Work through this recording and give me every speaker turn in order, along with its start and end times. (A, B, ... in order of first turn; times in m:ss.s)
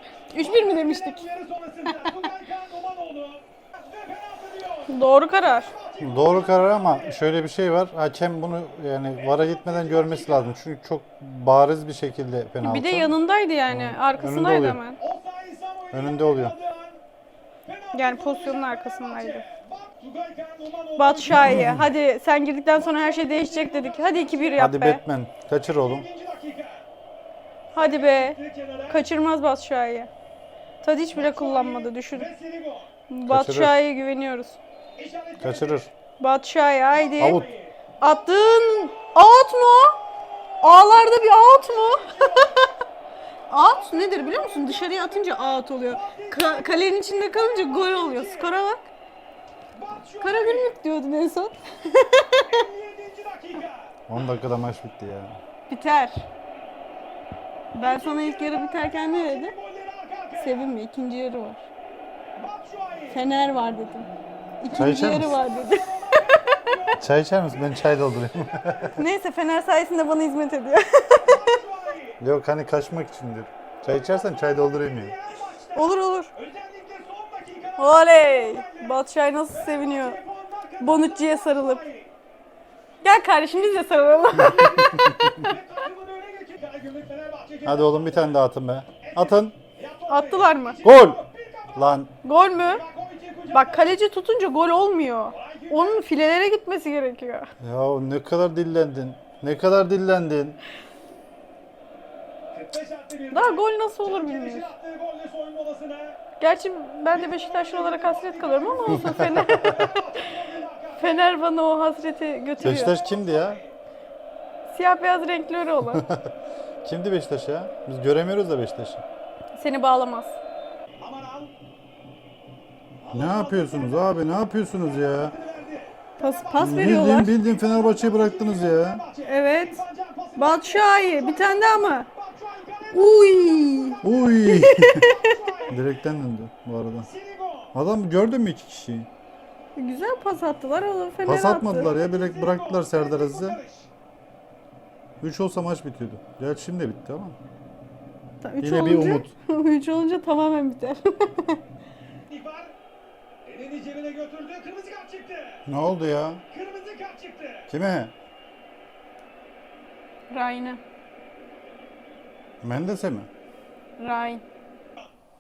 0:00.3-0:01.2 A
0:00.4-0:04.9 B
0:01.9-0:02.2 A
0:04.9-0:05.7 A
0:05.5-0:07.2 B
0:06.0-0:13.2 C
0:09.2-0:10.6 B
0:12.6-0:15.0 A
0:13.7-0:14.8 C
0:15.0-0:17.0 B
0:15.9-0:16.6 C
0:17.7-0:21.7 B
0:17.9-0:19.4 A
0:21.0-0:25.0 A
0:21.3-0:21.9 C
0:22.7-0:24.7 B
0:24.6-0:26.1 C
0:25.6-0:26.8 B
0:27.7-0:29.0 B
0:27.8-0:28.4 A
0:28.9-0:30.1 A
0:30.8-0:32.3 A
0:31.1-0:32.9 B
0:33.1-0:34.6 A
0:33.3-0:33.8 C
0:35.0-0:35.9 B
0:35.4-0:35.9 C
0:36.2-0:37.5 A
0:36.9-0:39.1 B
0:37.2-0:37.5 C
0:38.0-0:40.0 A
0:40.2-0:42.7 B
0:40.6-0:42.6 A
0:43.5-0:48.8 A
0:43.6-0:44.6 B
0:45.9-0:48.5 B
0:49.7-0:50.8 B
0:50.2-0:52.6 A
0:52.5-0:54.0 B
0:54.1-0:55.4 C
0:55.7-0:56.2 A
0:57.7-0:59.5 A
0:57.8-1:00.7 B
1:00.4-1:01.6 A
1:02.4-1:03.2 B
1:03.1-1:04.1 A
1:04.6-1:06.7 A
1:04.7-1:07.0 B
1:04.8-1:05.4 C
1:07.0-1:09.0 C
1:08.9-1:11.5 A
1:11.2-1:12.2 B
1:12.2-1:15.1 C
1:13.8-1:19.0 B
1:15.8-1:16.3 A
1:17.8-1:20.2 A
1:19.5-1:22.1 B
1:20.8-1:21.8 A
1:23.0-1:25.1 A
1:23.6-1:28.4 B
1:24.5-1:25.3 C
1:27.6-1:29.5 C
1:29.0-1:32.0 B
1:30.1-1:30.8 A
1:30.8-1:31.2 C
1:31.8-1:32.1 C
1:32.2-1:32.8 A
1:32.5-1:34.0 B
1:33.5-1:37.5 A
1:35.3-1:36.0 B
1:37.6-1:40.6 C
1:42.5-1:46.2 B
1:43.3-1:44.7 A
1:46.4-1:50.0 A
1:47.1-1:51.4 B
1:48.9-1:49.7 C
1:51.0-1:53.0 A
1:52.6-1:53.7 B
1:52.6-1:53.6 C
1:54.7-1:56.1 A
1:55.9-1:56.2 C
1:56.8-1:59.0 C
1:59.6-2:00.4 A
2:01.0-2:01.5 B
2:03.0-2:04.2 B
2:03.1-2:05.4 C
2:04.8-2:14.2 B
2:06.2-2:07.3 A
2:06.6-2:09.0 C
2:09.2-2:09.8 A
2:10.4-2:12.1 A
2:12.9-2:15.3 A
2:14.0-2:15.1 C
2:15.0-2:15.8 B
2:15.7-2:17.1 C
2:17.0-2:17.7 B
2:17.7-2:19.1 C
2:19.8-2:21.9 A
2:21.3-2:23.6 C
2:21.7-2:23.9 B
2:25.2-2:27.4 C
2:28.4-2:31.6 A
2:28.6-2:29.3 C
2:32.3-2:32.8 B
2:33.4-2:35.6 B
2:35.7-2:36.4 C
2:36.5-2:37.7 B
2:37.7-2:38.1 C
2:40.3-2:40.8 A
2:42.6-2:43.3 C
2:44.0-2:44.4 A